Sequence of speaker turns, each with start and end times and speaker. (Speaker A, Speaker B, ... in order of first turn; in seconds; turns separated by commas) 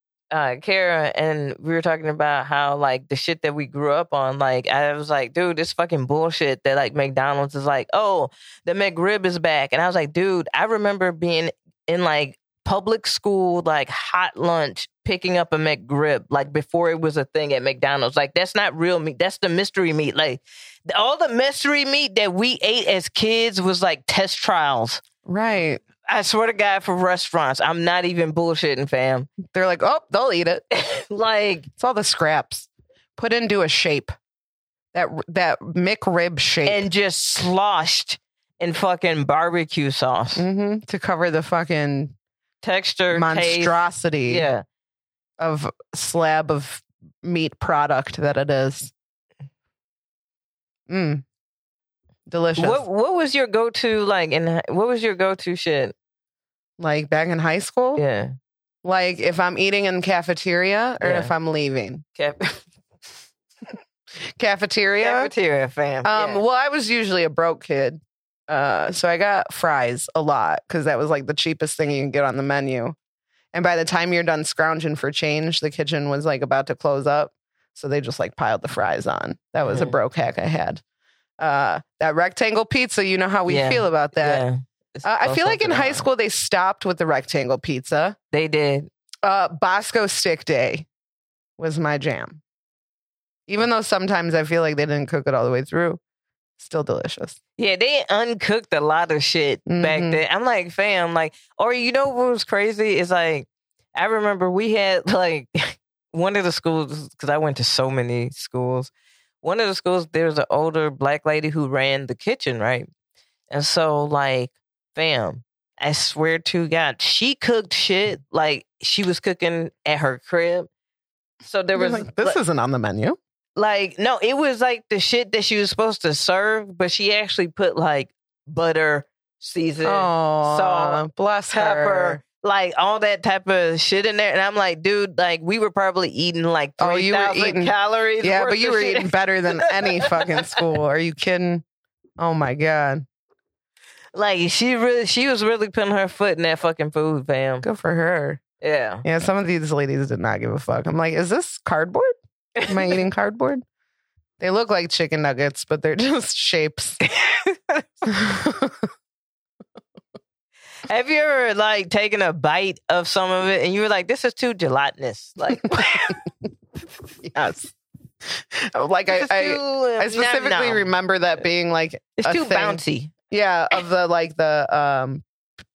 Speaker A: 0.3-25.0, Speaker B: 25.2-25.8, Speaker A: 26.1-29.3, Speaker B: 29.5-30.6, Speaker A: 30.7-31.7, Speaker B: 31.8-34.1, Speaker B: 34.9-36.8, Speaker A: 36.6-40.5, Speaker B: 40.4-42.1, Speaker A: 42.6-44.6, Speaker B: 43.1-44.5, Speaker B: 45.4-48.9, Speaker B: 50.9-51.2, Speaker B: 52.3-52.8, Speaker A: 52.6-55.9, Speaker B: 56.8-58.0, Speaker A: 58.0-58.3, Speaker B: 58.8-62.0, Speaker A: 61.0-61.3, Speaker A: 62.2-62.6, Speaker B: 64.3-65.3, Speaker A: 65.0-66.4, Speaker B: 66.0-72.9, Speaker B: 73.5-80.8, Speaker A: 79.6-80.0, Speaker B: 81.4-84.4, Speaker A: 83.5-86.1, Speaker B: 85.0-88.2, Speaker A: 88.3-88.9, Speaker B: 89.2-90.9, Speaker B: 91.6-92.4, Speaker B: 93.5-96.0, Speaker B: 96.6-97.4, Speaker A: 97.6-108.9, Speaker B: 99.7-100.2, Speaker A: 109.4-112.9, Speaker A: 113.5-120.7, Speaker A: 121.4-122.4, Speaker B: 121.7-123.2, Speaker A: 123.5-140.4, Speaker B: 129.8-132.2, Speaker B: 136.8-141.6, Speaker B: 142.2-143.1, Speaker A: 144.1-147.7, Speaker B: 147.6-148.4, Speaker A: 148.6-149.0, Speaker B: 149.0-152.1, Speaker B: 152.7-153.6, Speaker B: 154.4-157.0, Speaker A: 157.0-157.8, Speaker B: 158.1-158.8, Speaker A: 160.9-166.2, Speaker B: 165.6-166.3, Speaker B: 167.2-167.7, Speaker B: 168.2-175.2, Speaker A: 169.1-170.9, Speaker A: 172.2-173.1